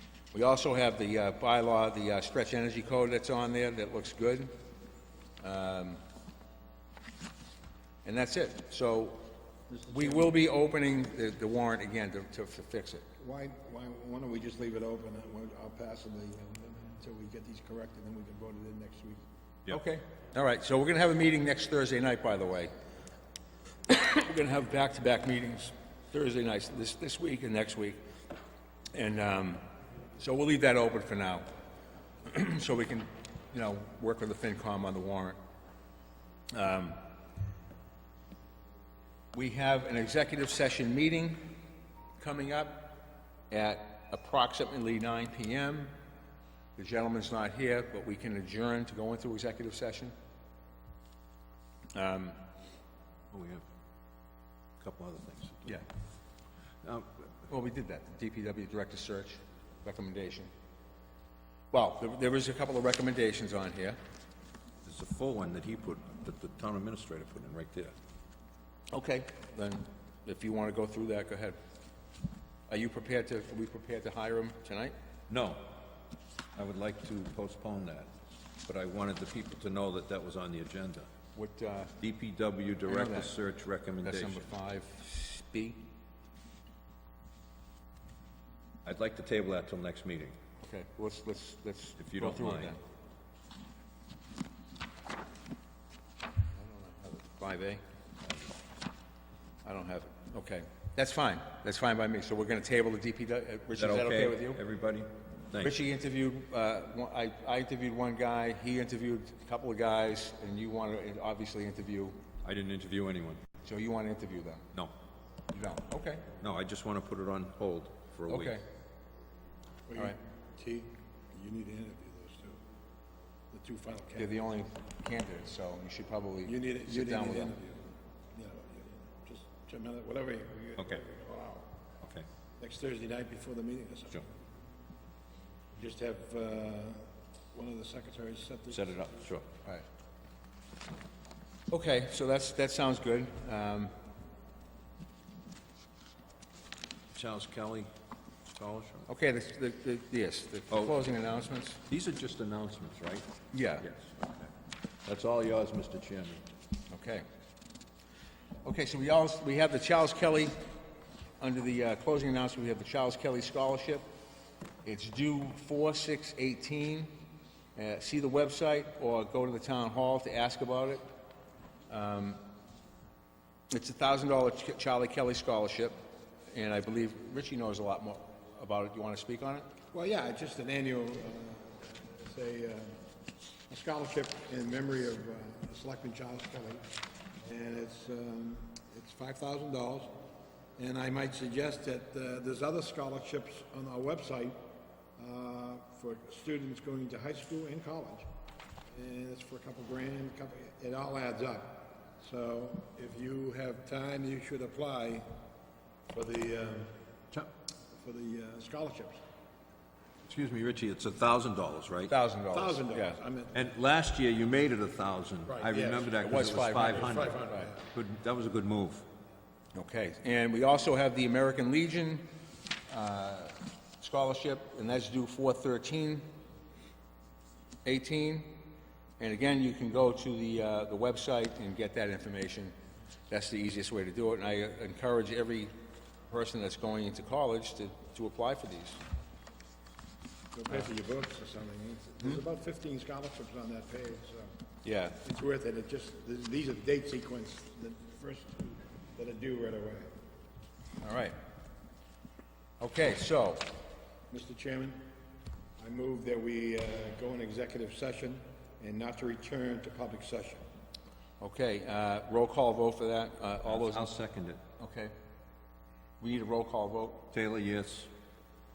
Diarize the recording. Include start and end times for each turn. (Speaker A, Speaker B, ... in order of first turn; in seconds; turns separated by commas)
Speaker A: 0.3-4.5, Speaker A: 5.4-6.0, Speaker A: 8.0-9.2, Speaker A: 9.8-13.1, Speaker B: 13.2-19.2, Speaker A: 19.7-22.7, Speaker A: 23.9-28.0, Speaker A: 28.9-29.6, Speaker A: 30.2-31.4, Speaker A: 32.2-35.4, Speaker A: 36.5-37.0, Speaker A: 39.3-41.4, Speaker A: 42.2-42.9, Speaker A: 43.5-45.9, Speaker A: 46.8-50.1, Speaker A: 51.9-52.4, Speaker C: 53.3-53.6, Speaker C: 54.8-55.8, Speaker C: 56.8-57.2, Speaker A: 57.5-60.5, Speaker A: 61.7-64.0, Speaker C: 64.8-67.9, Speaker A: 68.9-71.6, Speaker A: 72.7-74.9, Speaker C: 75.3-75.7, Speaker C: 76.5-78.1, Speaker C: 78.7-81.1, Speaker A: 81.3-81.9, Speaker C: 82.0-84.5, Speaker A: 82.9-83.3, Speaker A: 84.0-85.8, Speaker C: 88.8-90.3, Speaker A: 90.6-92.8, Speaker C: 92.0-92.7, Speaker A: 96.5-97.8, Speaker C: 98.2-98.5, Speaker A: 99.6-104.6, Speaker C: 103.8-105.8, Speaker A: 105.6-112.2, Speaker C: 112.4-113.4, Speaker A: 113.6-114.7, Speaker A: 115.5-116.2, Speaker C: 116.4-118.5, Speaker A: 118.3-118.6, Speaker B: 119.9-122.6, Speaker B: 123.5-124.4, Speaker A: 124.2-127.5, Speaker B: 126.4-131.7, Speaker B: 132.6-134.2, Speaker B: 135.7-139.0, Speaker C: 138.7-139.5, Speaker A: 141.7-143.9, Speaker C: 147.1-147.9, Speaker C: 148.5-149.1, Speaker A: 149.1-151.8, Speaker C: 150.7-150.9, Speaker C: 151.9-153.3, Speaker A: 153.5-153.9, Speaker C: 153.8-154.5, Speaker C: 155.1-156.4, Speaker A: 156.9-157.2, Speaker A: 158.6-160.6, Speaker A: 161.4-164.0, Speaker A: 164.8-167.1, Speaker A: 167.8-171.0, Speaker A: 171.9-172.4, Speaker A: 173.7-176.0, Speaker A: 176.5-179.7, Speaker B: 179.9-183.0, Speaker B: 183.7-186.8, Speaker B: 187.4-190.1, Speaker B: 190.8-194.6, Speaker B: 195.2-198.3, Speaker B: 198.9-205.3, Speaker B: 206.1-206.9, Speaker B: 207.9-209.2, Speaker C: 210.3-212.1, Speaker A: 212.1-213.2, Speaker B: 212.5-213.7, Speaker C: 213.5-219.0, Speaker B: 215.5-217.9, Speaker A: 216.2-217.7, Speaker A: 219.7-222.2, Speaker A: 222.9-226.2, Speaker A: 227.8-228.6, Speaker A: 229.2-232.7, Speaker A: 233.3-235.7, Speaker A: 236.3-239.0, Speaker B: 240.5-244.5, Speaker A: 244.8-245.2, Speaker B: 245.2-250.1, Speaker A: 251.0-251.3, Speaker A: 252.8-253.7, Speaker B: 254.3-255.1, Speaker B: 255.8-260.6, Speaker A: 261.4-264.1, Speaker C: 263.6-264.6, Speaker A: 264.8-265.1, Speaker A: 266.2-267.3, Speaker C: 267.3-268.1